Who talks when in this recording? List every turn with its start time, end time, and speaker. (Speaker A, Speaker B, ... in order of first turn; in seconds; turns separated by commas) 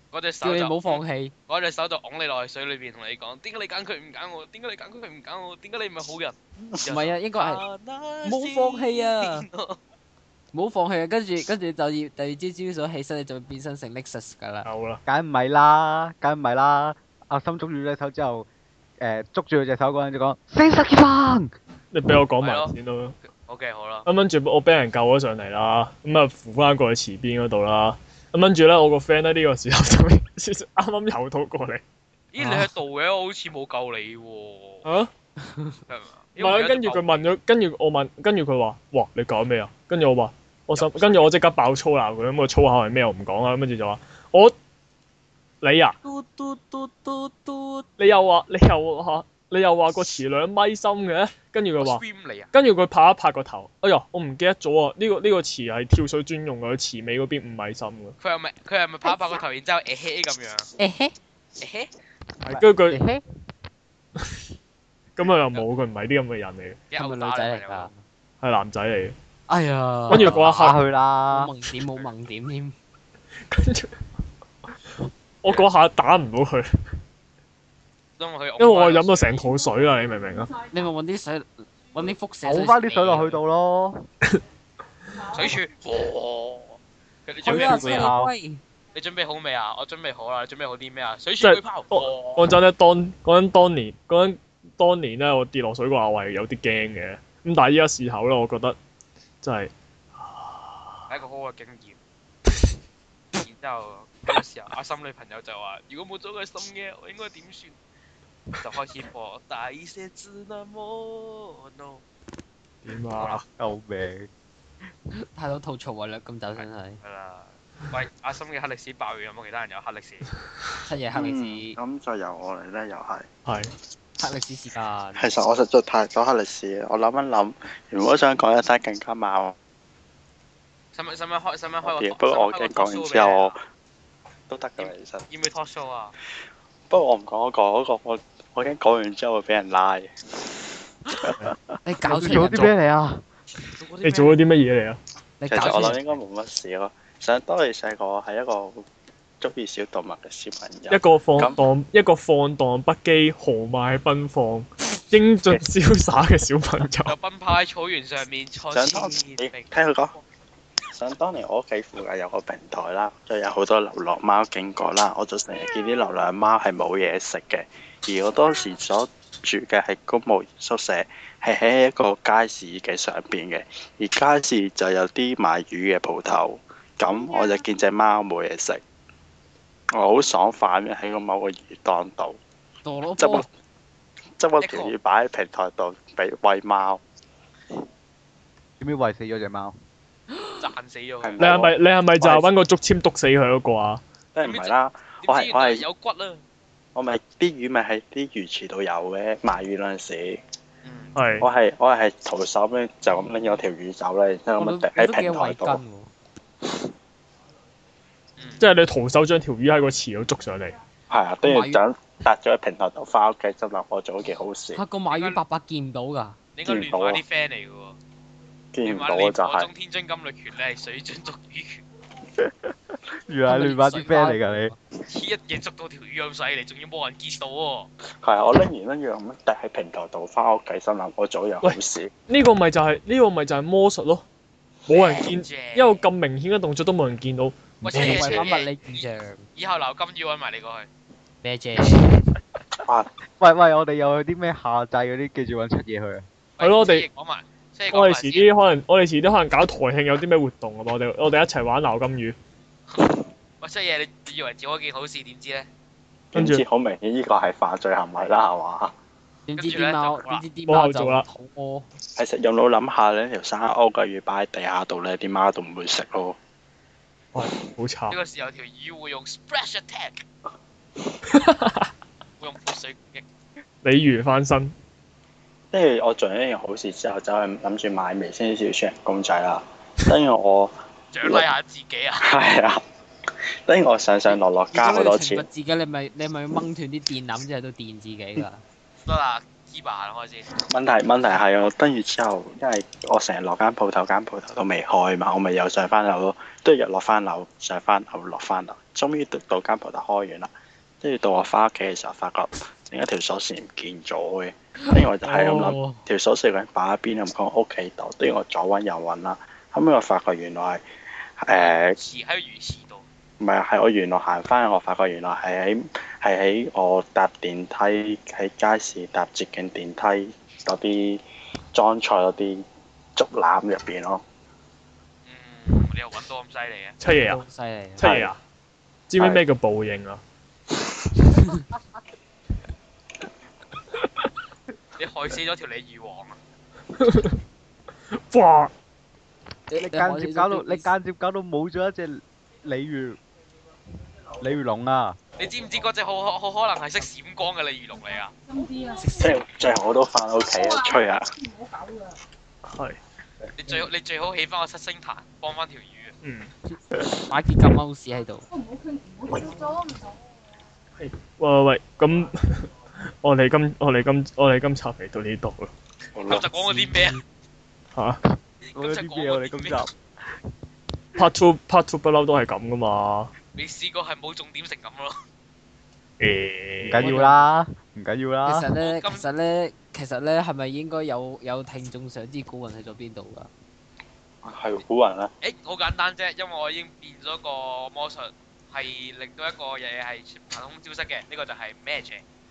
Speaker A: 0.1-9.8, Speaker B: 0.4-1.3, Speaker B: 6.9-7.6, Speaker B: 8.2-9.5, Speaker B: 10.5-14.7, Speaker C: 14.6-15.0, Speaker D: 15.1-18.5, Speaker D: 19.0-21.5, Speaker C: 21.9-23.2, Speaker A: 22.4-22.7, Speaker A: 23.4-24.1, Speaker C: 24.1-31.8, Speaker A: 32.3-34.9, Speaker C: 34.8-35.1, Speaker B: 35.4-35.8, Speaker A: 35.9-37.2, Speaker C: 36.4-44.5, Speaker A: 40.8-41.2, Speaker C: 45.6-46.0, Speaker A: 46.0-47.9, Speaker C: 48.0-58.2, Speaker A: 51.8-52.5, Speaker A: 58.2-60.7, Speaker B: 60.8-61.1, Speaker A: 61.6-61.9, Speaker C: 62.5-63.0, Speaker D: 62.5-63.2, Speaker C: 65.2-66.8, Speaker A: 66.9-67.9, Speaker B: 67.0-68.0, Speaker C: 68.4-69.2, Speaker B: 69.5-70.8, Speaker C: 70.1-70.8, Speaker D: 70.1-71.5, Speaker B: 71.3-72.8, Speaker C: 73.5-74.0, Speaker C: 75.4-76.7, Speaker A: 78.2-79.5, Speaker C: 78.6-80.5, Speaker B: 80.7-83.4, Speaker D: 82.4-84.1, Speaker A: 85.2-88.1, Speaker B: 87.4-88.6, Speaker D: 87.5-88.3, Speaker A: 88.9-92.5, Speaker C: 91.4-98.8, Speaker C: 99.4-101.1, Speaker A: 101.1-102.0, Speaker A: 103.3-107.8, Speaker A: 108.6-112.0, Speaker C: 112.8-113.5, Speaker A: 113.2-113.4, Speaker D: 113.6-114.3, Speaker B: 115.2-117.0, Speaker A: 116.6-120.3, Speaker B: 120.9-121.8, Speaker E: 121.2-123.3, Speaker C: 123.5-123.7, Speaker B: 124.2-125.3, Speaker E: 125.2-129.6, Speaker A: 130.9-133.6, Speaker E: 131.8-133.6, Speaker E: 134.5-135.2, Speaker A: 134.8-136.2, Speaker E: 136.9-140.1, Speaker B: 141.8-142.7, Speaker D: 142.0-143.2, Speaker A: 143.8-144.4, Speaker C: 144.0-145.0, Speaker B: 145.4-146.2, Speaker E: 145.5-148.8, Speaker E: 149.4-151.6, Speaker C: 150.9-157.2, Speaker A: 157.1-159.8, Speaker E: 158.7-160.2, Speaker E: 160.9-178.8, Speaker E: 179.9-182.4, Speaker B: 182.8-183.5, Speaker E: 183.2-183.5, Speaker E: 184.4-187.0, Speaker A: 184.6-184.9, Speaker D: 188.8-189.8, Speaker A: 190.6-191.4, Speaker E: 191.2-192.5, Speaker C: 191.4-194.0, Speaker E: 194.3-195.8, Speaker A: 194.4-196.4, Speaker E: 196.9-200.4, Speaker A: 200.8-201.2, Speaker C: 201.2-201.5, Speaker E: 201.4-205.8, Speaker B: 204.6-206.1, Speaker A: 208.4-208.6, Speaker C: 208.6-210.7, Speaker E: 211.1-214.8, Speaker B: 211.4-211.8, Speaker B: 214.8-216.4, Speaker A: 215.1-215.4, Speaker A: 216.6-218.0, Speaker E: 216.7-217.2, Speaker E: 218.7-219.7, Speaker A: 218.8-221.8, Speaker D: 222.4-224.7, Speaker B: 223.5-224.8, Speaker A: 225.1-227.9, Speaker E: 228.2-232.1, Speaker C: 231.6-234.2, Speaker C: 234.9-238.5, Speaker A: 234.9-236.0, Speaker A: 237.8-240.9, Speaker B: 237.9-239.5, Speaker B: 241.4-242.2, Speaker E: 242.8-243.1, Speaker D: 243.4-246.3, Speaker A: 246.6-248.5, Speaker C: 246.6-247.1, Speaker C: 247.9-252.4, Speaker A: 253.0-255.7, Speaker E: 256.3-258.9, Speaker C: 256.4-256.6, Speaker B: 259.5-261.9, Speaker A: 259.6-260.4, Speaker C: 260.7-261.2, Speaker E: 262.2-266.4, Speaker C: 267.3-268.2, Speaker A: 268.1-270.2, Speaker C: 271.3-271.9, Speaker A: 272.4-273.2, Speaker C: 273.8-274.7, Speaker E: 275.7-280.7, Speaker A: 281.1-282.3, Speaker E: 282.2-282.8, Speaker E: 283.7-285.5, Speaker B: 284.7-288.6, Speaker A: 289.1-290.5, Speaker E: 290.6-300.5, Speaker E: 301.0-310.8, Speaker B: 304.9-306.0, Speaker E: 311.4-312.0, Speaker A: 311.5-313.1, Speaker E: 313.4-321.2, Speaker E: 321.7-322.6, Speaker E: 323.2-324.2, Speaker A: 325.3-327.0, Speaker C: 327.0-327.4, Speaker B: 327.2-328.0, Speaker C: 328.0-328.4, Speaker E: 328.0-328.3, Speaker C: 329.1-330.2, Speaker A: 335.0-336.4, Speaker C: 337.0-337.4, Speaker C: 338.1-338.7, Speaker B: 339.7-340.9, Speaker D: 339.8-343.2, Speaker D: 344.4-345.2, Speaker A: 345.4-348.3, Speaker B: 349.0-349.4, Speaker E: 349.2-351.3, Speaker C: 352.7-353.0, Speaker A: 353.6-356.1, Speaker C: 356.2-356.5, Speaker B: 357.2-358.5, Speaker E: 359.3-359.6, Speaker C: 361.0-365.7, Speaker E: 366.1-366.5, Speaker A: 366.3-367.2, Speaker C: 367.9-368.2, Speaker A: 368.7-369.9, Speaker D: 368.8-369.9, Speaker C: 371.2-373.3, Speaker A: 373.6-375.2, Speaker C: 376.2-377.3, Speaker D: 376.8-378.7, Speaker B: 377.0-377.5, Speaker B: 378.5-383.5, Speaker A: 378.8-379.2, Speaker E: 384.4-385.3, Speaker A: 385.4-392.2